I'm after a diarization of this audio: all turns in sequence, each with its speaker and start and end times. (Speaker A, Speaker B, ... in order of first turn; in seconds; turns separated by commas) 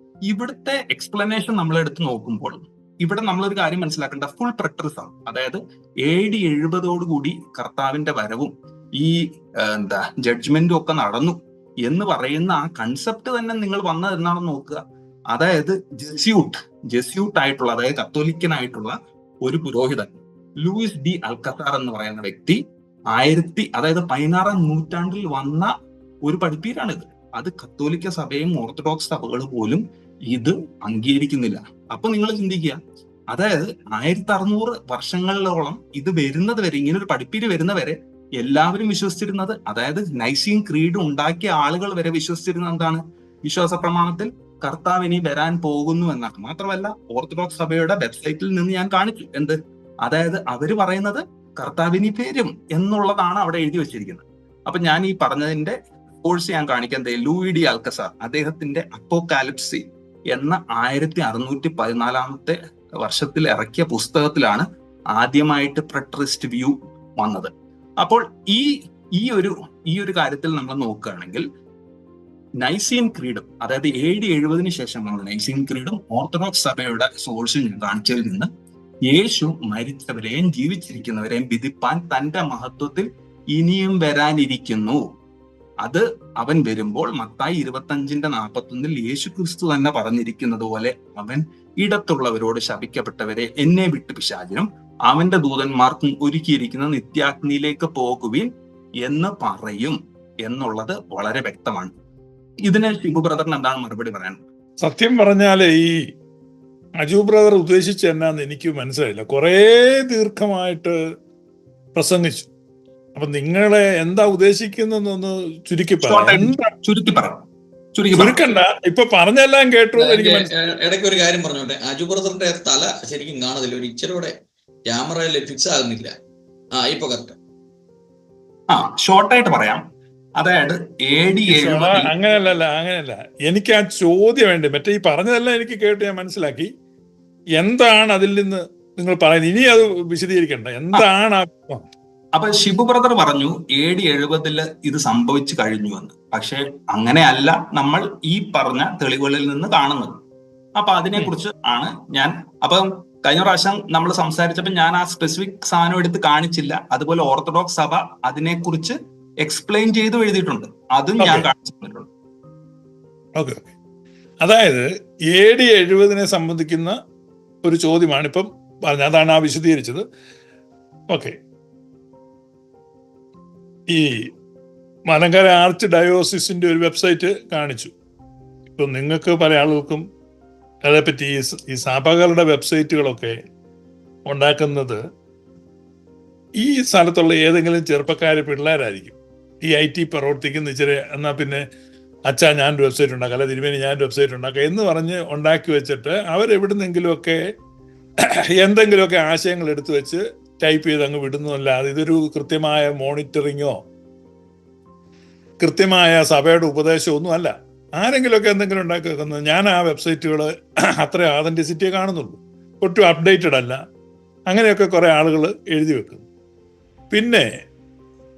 Speaker A: 0.3-14.8, Speaker A: 15.3-22.6, Speaker A: 23.1-25.7, Speaker A: 26.2-32.8, Speaker A: 33.3-68.7, Speaker A: 69.2-71.4, Speaker A: 72.6-78.5, Speaker A: 79.1-85.0, Speaker A: 85.8-98.5, Speaker A: 99.0-101.9, Speaker A: 102.6-104.4, Speaker B: 104.8-106.0, Speaker B: 107.0-110.9, Speaker B: 111.9-112.5, Speaker B: 113.1-116.7, Speaker A: 116.0-117.4, Speaker A: 117.9-118.4, Speaker B: 118.1-120.5, Speaker C: 120.0-124.3, Speaker C: 124.9-126.1, Speaker C: 126.8-127.4, Speaker A: 128.7-129.8, Speaker A: 130.4-132.1, Speaker B: 131.5-136.7, Speaker B: 137.6-141.8, Speaker A: 142.3-150.1, Speaker A: 150.8-162.1, Speaker B: 161.2-161.5, Speaker B: 163.4-163.7, Speaker B: 164.4-166.9, Speaker B: 167.6-170.0, Speaker B: 175.1-177.9, Speaker B: 178.7-180.0, Speaker B: 180.9-183.3, Speaker B: 184.3-185.0, Speaker B: 186.6-191.6, Speaker B: 192.3-197.4, Speaker B: 198.5-203.8, Speaker B: 205.6-210.5, Speaker B: 211.0-213.7, Speaker B: 214.5-216.2, Speaker B: 217.1-217.4